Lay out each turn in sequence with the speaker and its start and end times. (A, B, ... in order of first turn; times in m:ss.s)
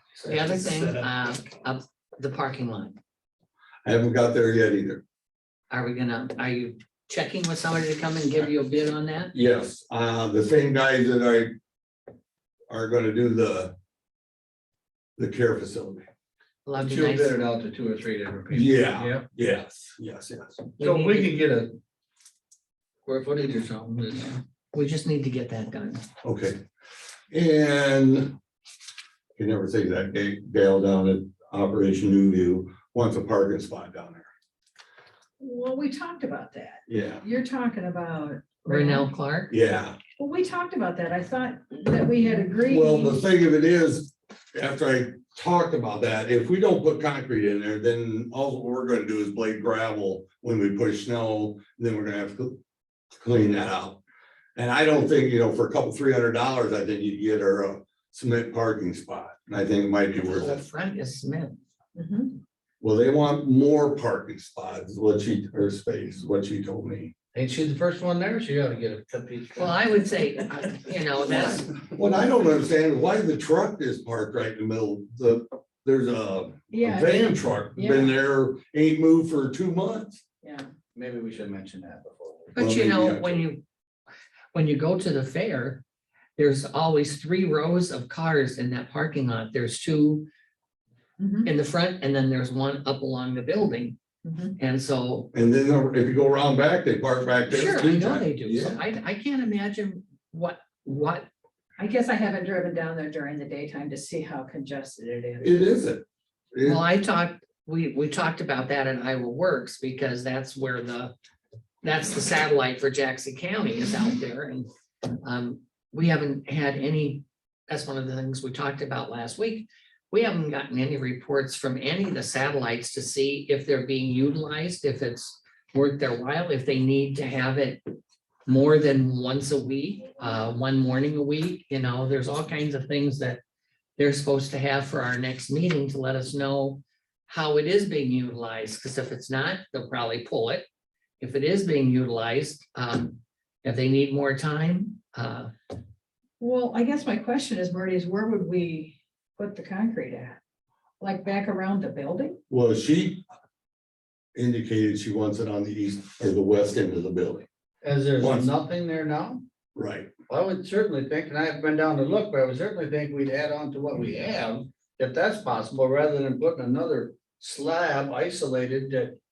0:00.2-0:03.0 A
0:03.8-0:05.0 B
0:05.7-0:09.3 A
0:09.3-0:11.5 B
0:12.7-0:13.7 B
0:15.2-0:16.0 B
0:16.7-0:17.4 A
0:16.8-0:19.2 C
0:18.5-0:20.8 B
0:20.8-0:21.8 C
0:20.8-0:21.3 A
0:23.1-0:24.3 C
0:24.1-0:26.0 A
0:26.2-0:26.6 B
0:27.3-0:28.4 B
0:29.4-0:34.3 B
0:35.4-0:39.1 D
0:36.9-0:37.2 B
0:38.7-0:39.5 A
0:39.5-0:40.0 B
0:40.2-0:43.2 D
0:42.6-0:52.6 B
0:53.2-0:54.0 B
0:54.6-1:00.6 B
1:00.2-1:01.6 A
1:02.0-1:02.4 D
1:02.8-1:07.1 B
1:07.3-1:09.8 C
1:09.6-1:11.7 A
1:11.3-1:20.2 B
1:16.7-1:18.2 D
1:20.4-1:20.7 D
1:21.0-1:22.5 C
1:22.5-1:23.6 A
1:22.6-1:23.5 B
1:24.5-1:25.8 A
1:26.4-1:30.3 A
1:31.2-1:31.5 D
1:31.4-1:34.0 A
1:34.2-1:34.6 D
1:34.6-1:35.3 A
1:35.3-1:38.8 B
1:37.5-1:41.3 A
1:41.8-1:45.6 D
1:45.4-1:46.8 B
1:46.6-1:51.1 A
1:51.8-1:54.7 A
1:55.2-2:07.8 A
2:08.5-2:13.4 A
2:14.0-2:20.6 A
2:21.2-2:25.5 A
2:26.4-2:30.4 D
2:31.0-2:32.4 D
2:32.5-2:33.2 B
2:34.4-2:37.5 B
2:37.8-2:39.4 C
2:38.2-2:38.5 B
2:39.8-2:40.1 B
2:40.3-2:49.2 C